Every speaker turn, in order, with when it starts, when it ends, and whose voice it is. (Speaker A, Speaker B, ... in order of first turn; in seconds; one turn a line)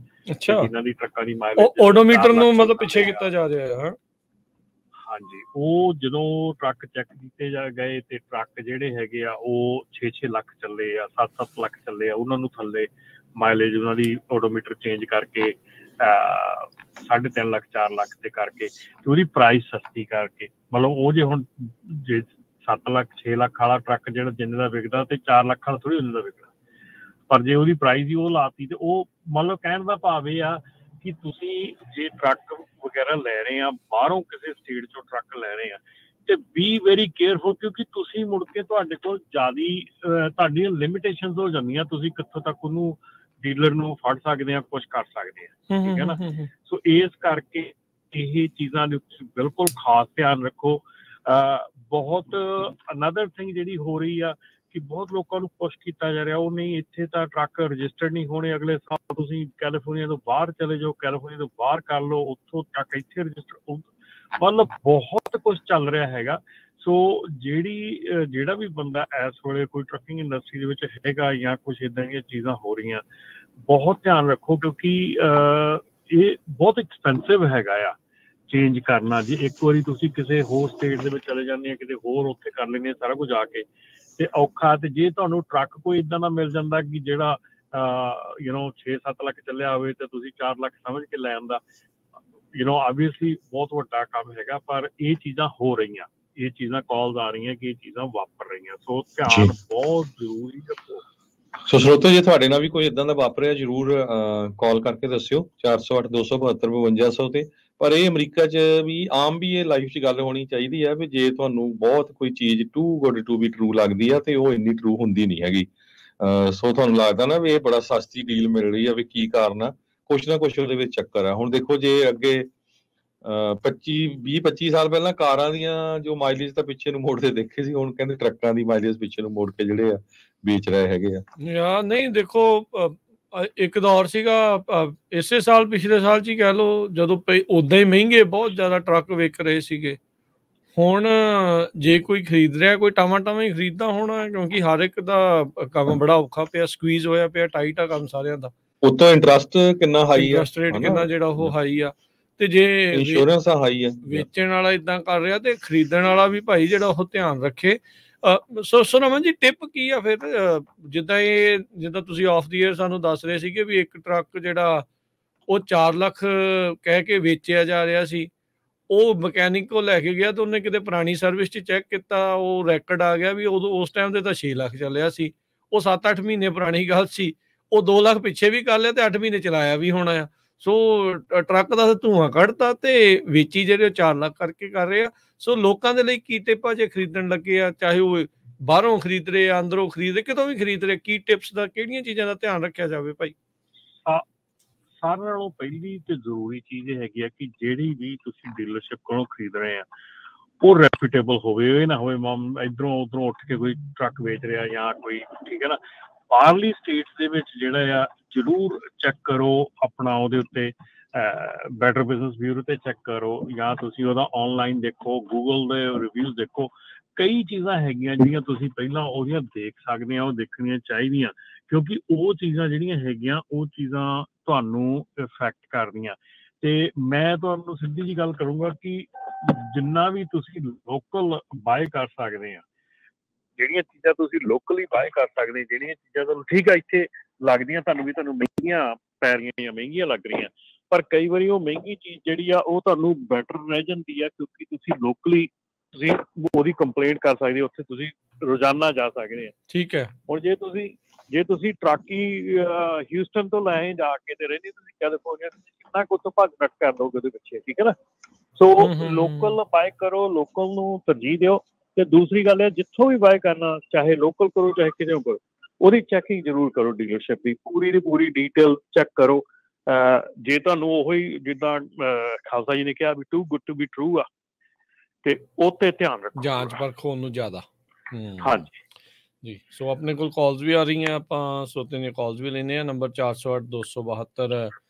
Speaker A: 0.3-0.7
Speaker B: 0.5-3.3
Speaker A: 1.6-4.0
Speaker B: 5.0-26.5
Speaker B: 27.3-73.0
Speaker A: 45.7-46.5
Speaker B: 73.7-78.0
Speaker B: 78.5-83.7
Speaker B: 84.2-91.6
Speaker B: 92.5-101.0
Speaker C: 99.3-99.5
Speaker C: 101.7-122.5
Speaker C: 123.2-131.2
Speaker A: 131.4-140.0
Speaker A: 140.8-148.5
Speaker C: 148.8-151.5
Speaker A: 150.2-153.3
Speaker C: 152.9-154.3
Speaker A: 154.0-164.9
Speaker A: 165.5-168.3
Speaker A: 168.9-193.3
Speaker B: 195.0-199.8
Speaker B: 200.6-205.8
Speaker B: 206.3-232.6
Speaker B: 233.6-249.6
Speaker A: 249.7-250.1
Speaker B: 250.3-257.9
Speaker B: 258.6-274.3
Speaker A: 258.8-259.6
Speaker B: 275.2-276.8
Speaker A: 276.4-278.6
Speaker B: 278.4-278.7
Speaker A: 279.4-284.8